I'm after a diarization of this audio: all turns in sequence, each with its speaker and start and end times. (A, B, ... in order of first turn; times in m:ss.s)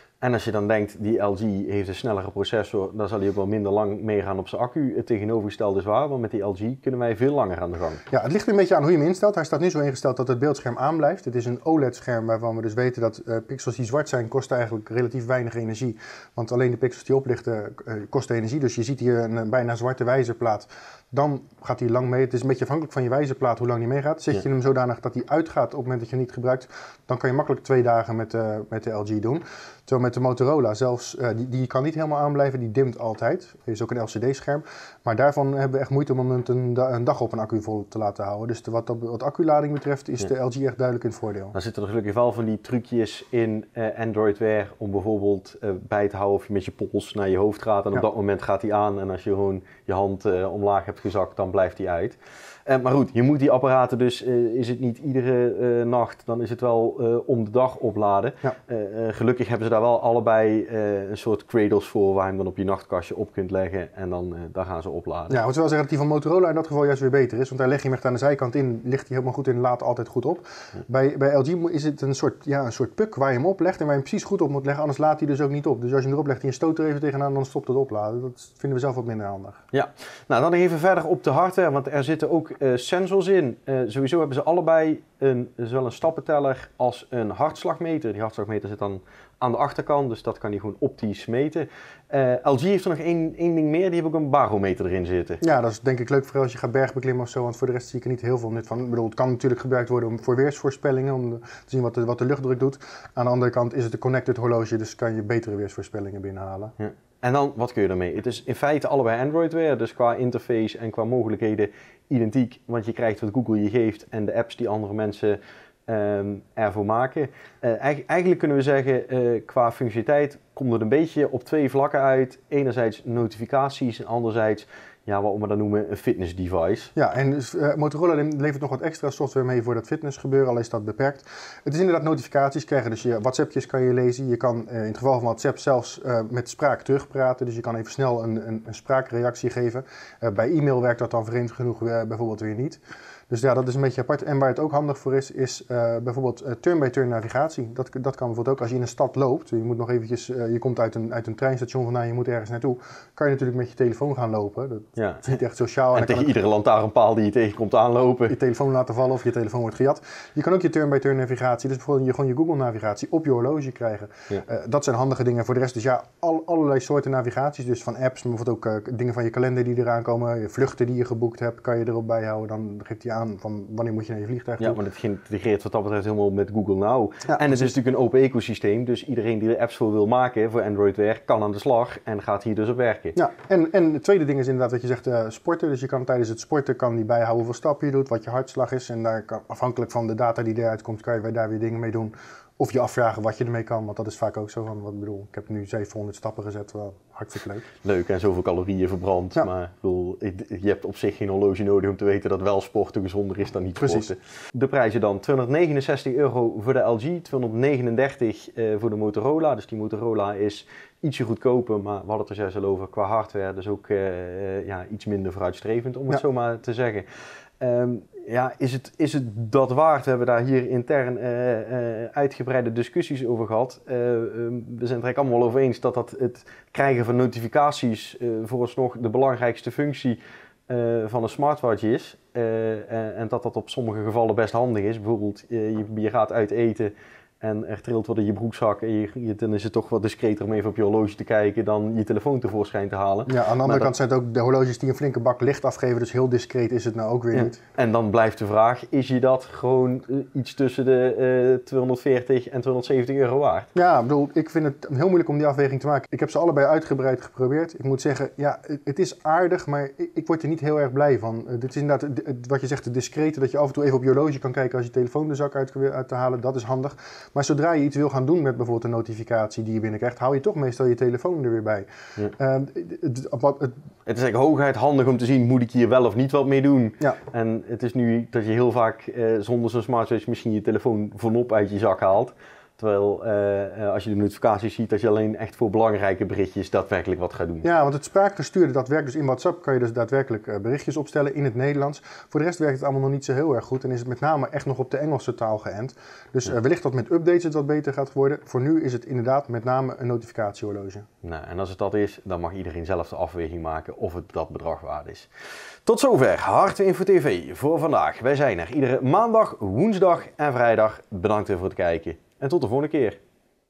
0:00.2-0:08.0 A
0:08.1-0:41.6 B
0:41.5-1:05.4 A
1:05.3-1:19.6 B
1:19.7-1:35.4 A
1:35.4-1:46.8 B
1:46.8-2:06.9 A
2:07.0-2:36.4 B
2:35.0-2:35.4 A
2:35.9-2:38.4 A
2:38.3-2:54.8 B
2:54.6-3:03.2 A
2:57.3-2:57.7 B
3:03.2-3:17.7 B
3:17.8-3:37.1 A
3:23.8-3:24.1 B
3:37.6-4:03.9 A
4:03.3-4:07.6 B
4:07.3-4:13.7 A
4:13.8-4:33.8 B
4:34.1-4:47.7 A
4:47.6-5:01.1 B
5:01.2-5:05.3 A
5:05.9-5:13.2 A